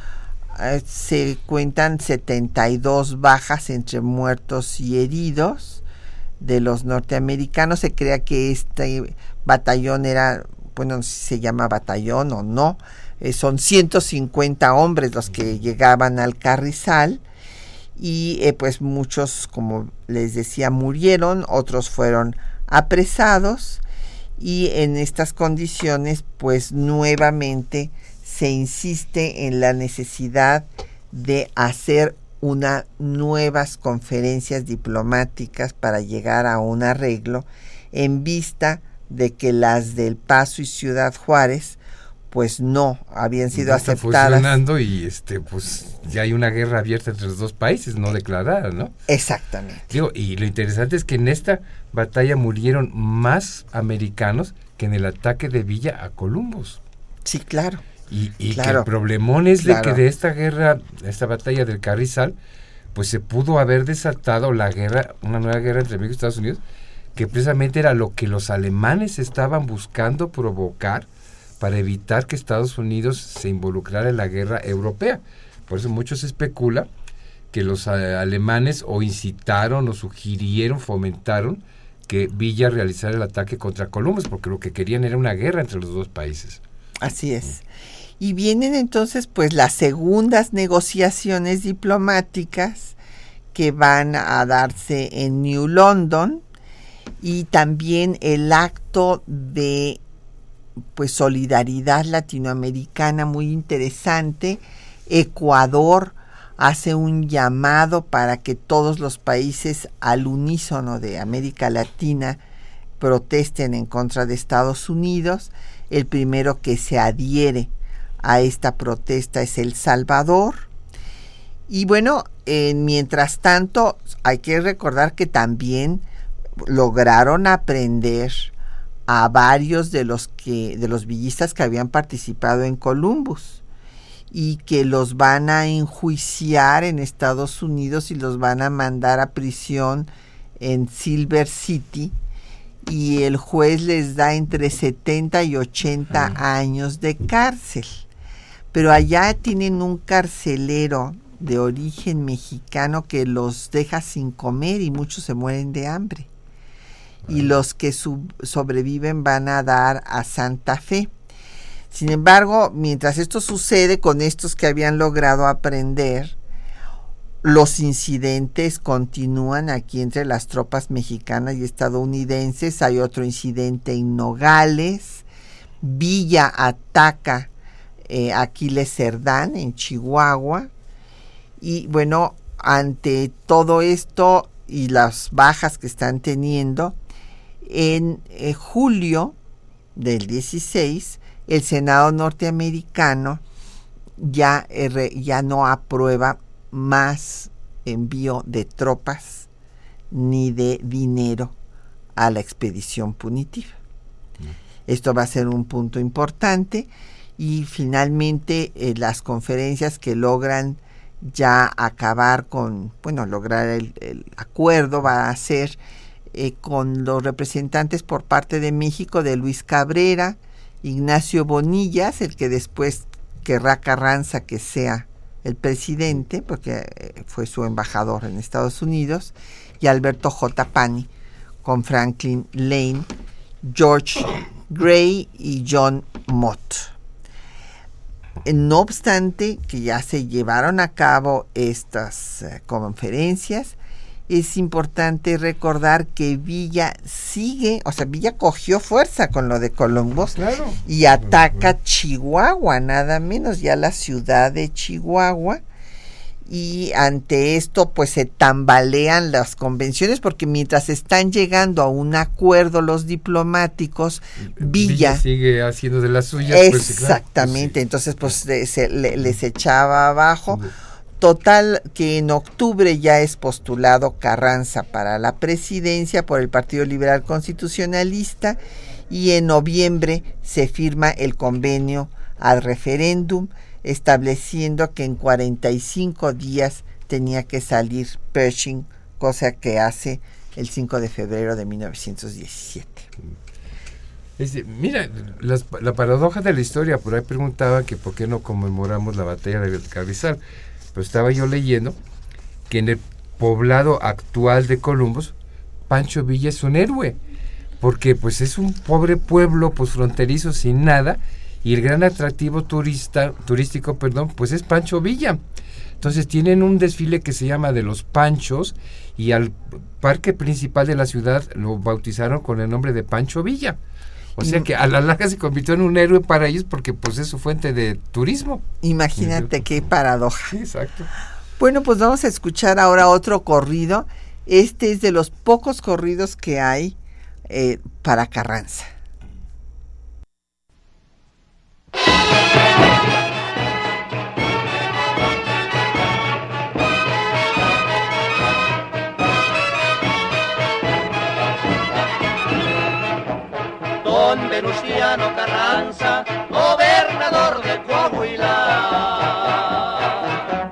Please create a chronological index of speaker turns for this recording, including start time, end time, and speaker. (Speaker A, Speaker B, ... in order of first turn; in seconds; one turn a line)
Speaker A: 0.5-5.8
Speaker A: 6.4-17.2
Speaker A: 17.9-23.8
Speaker A: 24.4-41.8
Speaker A: 42.3-44.6
Speaker B: 43.5-48.9
Speaker A: 49.1-49.9
Speaker B: 49.9-56.8
Speaker A: 57.2-57.8
Speaker B: 58.1-62.3
Speaker A: 58.5-58.9
Speaker A: 59.6-60.0
Speaker B: 62.9-66.6
Speaker B: 67.1-71.1
Speaker B: 71.6-76.9
Speaker B: 77.5-86.6
Speaker A: 87.0-87.6
Speaker A: 88.2-93.0
Speaker A: 93.5-96.4
Speaker A: 97.2-100.0
Speaker A: 100.9-112.4
Speaker A: 113.0-120.7
Speaker A: 121.7-126.0
Speaker A: 126.6-128.5
Speaker A: 129.1-133.6
Speaker A: 134.3-142.1
Speaker A: 142.8-148.0
Speaker A: 148.7-156.3
Speaker A: 157.3-161.1
Speaker A: 161.9-166.3
Speaker A: 167.4-175.2
Speaker A: 175.8-177.5
Speaker A: 178.1-180.7
Speaker A: 181.6-187.0
Speaker A: 187.6-189.4
Speaker A: 189.9-193.4
Speaker A: 194.2-199.5
Speaker A: 200.1-201.5
Speaker A: 202.1-203.8
Speaker A: 204.9-215.8
Speaker A: 216.3-231.1
Speaker A: 231.6-233.1
Speaker A: 233.6-236.9
Speaker A: 238.4-243.8
Speaker A: 244.3-255.6
Speaker B: 250.3-250.8
Speaker A: 256.4-265.2
Speaker B: 264.6-267.7
Speaker A: 266.4-270.6
Speaker A: 271.2-293.1
Speaker B: 294.4-300.4
Speaker B: 300.9-302.0
Speaker B: 302.7-305.4
Speaker B: 305.9-307.2
Speaker B: 307.8-315.4
Speaker B: 316.0-323.8
Speaker B: 324.4-328.6
Speaker A: 324.4-324.7
Speaker A: 328.8-330.5
Speaker B: 329.1-329.5
Speaker B: 330.5-331.1
Speaker A: 331.6-337.0
Speaker A: 337.5-338.9
Speaker C: 354.0-360.4